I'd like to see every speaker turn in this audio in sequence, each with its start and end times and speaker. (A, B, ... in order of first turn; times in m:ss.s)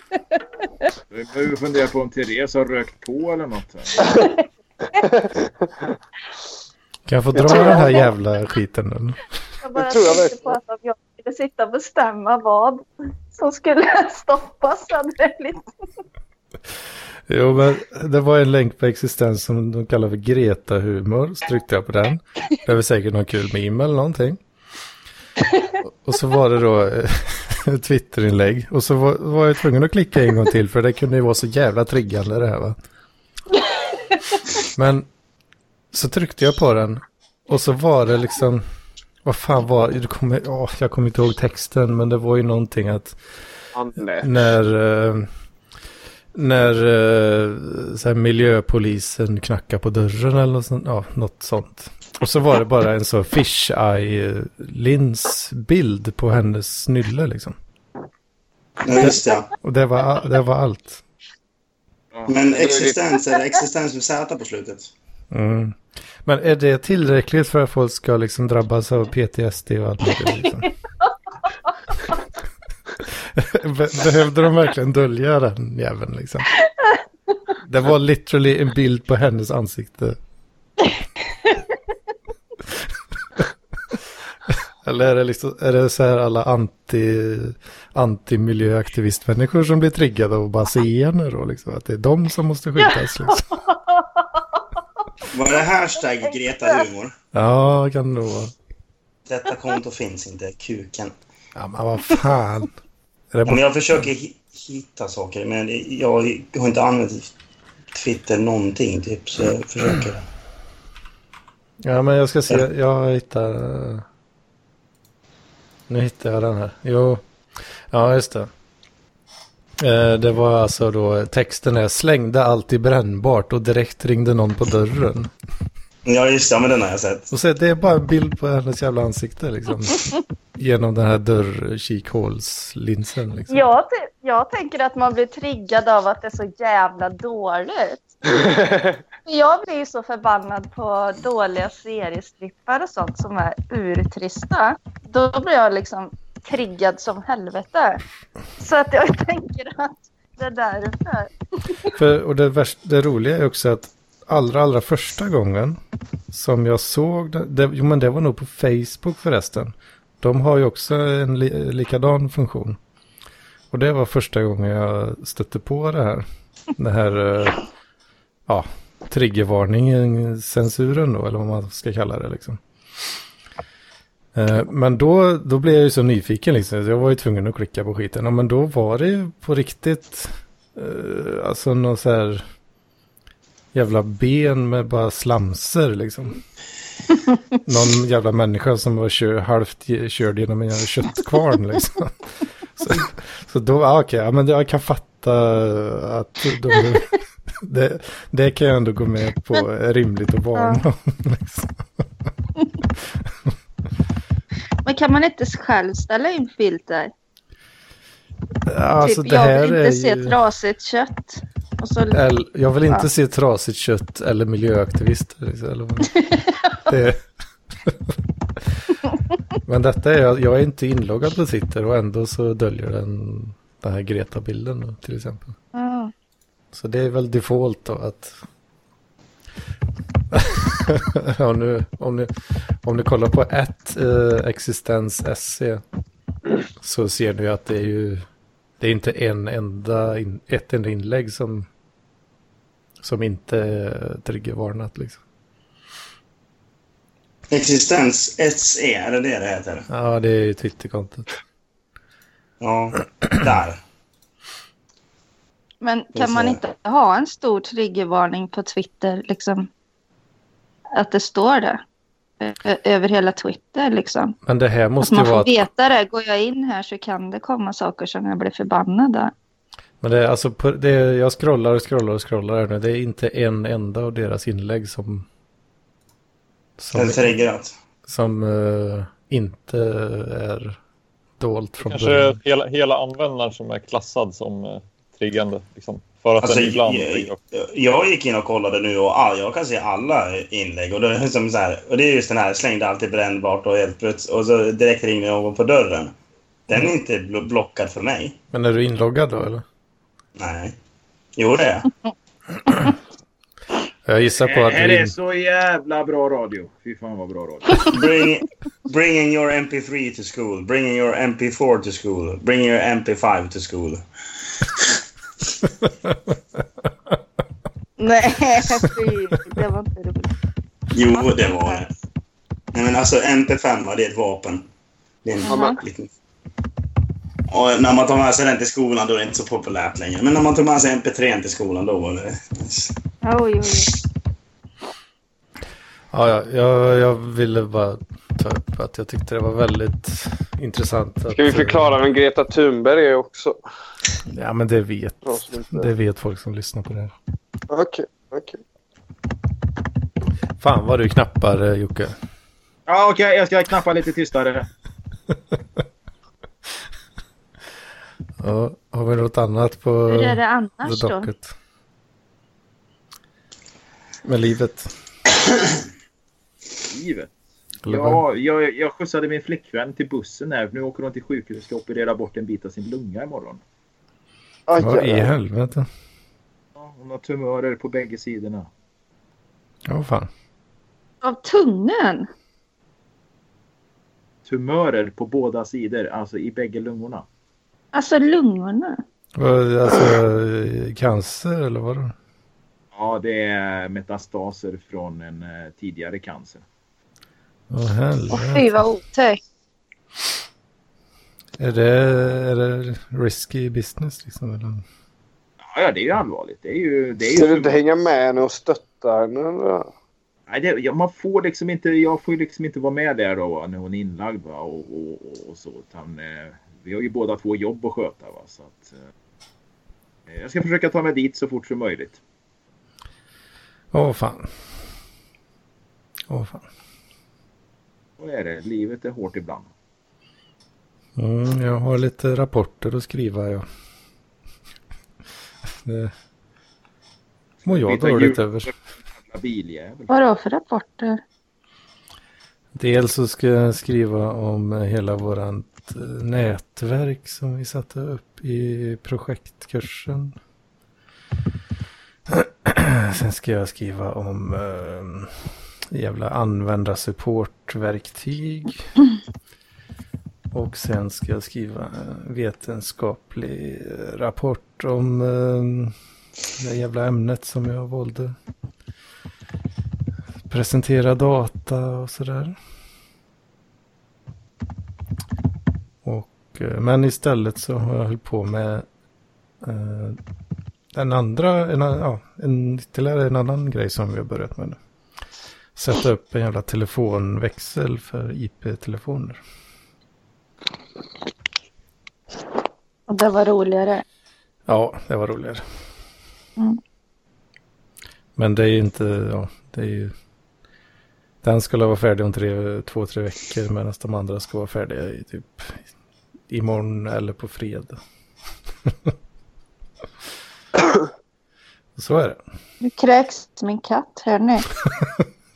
0:01.1-0:04.0 A
0:04.1-0:04.4 B
0:05.0-0:05.7 C
0:07.1-0:09.2 D
0:07.4-0:08.0 C
0:07.5-0:07.9 B
0:09.6-0:15.6 B
0:09.7-0:10.6 C
0:17.3-0:24.4 D
0:25.8-0:32.8 D
0:33.6-0:34.4 B
0:34.7-0:35.1 D
0:35.9-0:38.6 D
0:39.2-0:43.2 D
0:43.7-0:44.3 C
0:44.2-0:45.3 D
0:46.3-0:57.6 D
0:58.8-0:59.5 E
0:59.0-1:01.0 D
1:02.3-1:04.9 E
1:02.5-1:03.0 C
1:05.3-1:10.7 D
1:13.3-1:16.5 D
1:17.7-1:20.2 D
1:24.5-1:33.4 D
1:32.8-1:34.6 B
1:35.3-1:37.1 E
1:36.2-1:36.8 B
1:37.3-1:38.5 D
1:39.3-1:41.1 E
1:41.6-1:42.7 D
1:43.3-1:44.0 D
1:43.5-1:47.3 E
1:47.9-1:50.2 E
1:51.8-1:54.0 D
1:55.9-1:57.2 D
1:57.9-1:58.5 D
1:59.8-2:05.3 D
2:06.0-2:07.3 E
2:07.3-2:13.6 D
2:13.5-2:18.1 B
2:18.4-2:18.9 C
2:19.2-2:28.0 B
2:28.6-2:31.9 B
2:31.9-2:35.8 D
2:36.3-2:42.8 D
2:43.7-2:46.2 D
2:46.8-2:47.6 D
2:48.5-2:52.6 D
2:54.3-3:02.4 D
3:03.7-3:06.4 D
3:07.6-3:12.1 D
3:12.8-3:17.1 D
3:17.6-3:21.7 D
3:20.5-3:20.8 B
3:24.8-3:27.1 B
3:28.7-3:30.4 D
3:29.0-3:32.2 B
3:32.1-3:36.2 D
3:36.1-3:36.9 B
3:36.8-3:37.2 D
3:37.8-3:38.1 D
3:39.6-3:45.5 D
3:45.7-3:46.1 B
3:46.7-3:48.4 D
3:50.3-3:52.3 D
3:52.8-3:55.8 D
3:56.8-3:58.2 D
3:58.8-4:01.7 D
4:03.0-4:05.2 D
4:07.5-4:09.9 E
4:09.9-4:11.2 D
4:12.6-4:13.8 E
4:15.8-4:19.7 B
4:16.2-4:16.6 E
4:21.0-4:21.8 B
4:22.4-4:24.3 B
4:24.4-4:25.6 D
4:25.0-4:29.3 B
4:30.0-4:35.3 D
4:36.8-4:37.3 D
4:36.9-4:37.7 E
4:38.0-4:40.8 D
4:41.4-4:42.4 D
4:41.8-4:47.4 F
4:46.4-4:56.1 E
4:56.7-4:58.4 E
4:58.5-4:59.6 D
5:00.4-5:00.8 E
5:01.4-5:01.9 E
5:04.1-5:05.1 D
5:04.4-5:07.9 A
5:07.8-5:14.0 E
5:18.0-5:20.3 B
5:20.9-5:21.9 E
5:21.1-5:21.8 B
5:22.7-5:24.7 E
5:25.2-5:26.1 E
5:25.4-5:25.8 B
5:25.5-5:25.8 C
5:27.5-5:32.9 E
5:33.2-5:33.9 B
5:36.1-5:41.9 D
5:41.3-5:43.6 C
5:44.3-5:47.1 D
5:45.2-5:45.9 C
5:47.7-5:48.6 C
5:50.6-5:52.1 D
5:52.9-5:54.7 A
5:58.4-6:01.5 D
6:00.1-6:01.3 B
6:04.2-6:04.9 D
6:06.8-6:07.3 A
6:07.8-6:08.2 D
6:07.8-6:13.6 A
6:14.7-6:15.3 C
6:14.8-6:15.9 D
6:16.8-6:18.7 A
6:19.9-6:20.3 D
6:21.2-6:22.3 B
6:24.4-6:27.2 A
6:27.9-6:29.0 B
6:29.4-6:32.1 D
6:32.9-6:36.6 A
6:37.7-6:38.8 D
6:38.3-6:39.4 B
6:41.6-6:44.8 D
6:45.7-6:47.8 A
6:47.3-6:49.9 C
6:50.5-6:59.0 A
7:00.3-7:02.2 A
7:03.9-7:04.5 D
7:06.3-7:06.6 D
7:08.2-7:09.7 A
7:11.2-7:13.6 D
7:15.8-7:16.1 D
7:17.6-7:18.7 D
7:17.6-7:20.1 A
7:20.1-7:21.2 B
7:22.7-7:30.4 D
7:32.3-7:35.3 D
7:35.9-7:38.9 D
7:40.5-7:45.9 D
7:46.6-7:48.4 D
7:50.5-7:52.6 D
7:56.0-7:58.8 D
7:59.6-8:00.2 D
8:00.9-8:04.8 D
8:05.8-8:09.4 D
8:13.1-8:14.0 B
8:14.7-8:15.6 D
8:18.4-8:20.1 D
8:21.4-8:25.8 D
8:26.5-8:28.0 D
8:28.8-8:29.1 D
8:32.0-8:32.4 D
8:32.8-8:34.7 B
8:35.0-8:35.2 D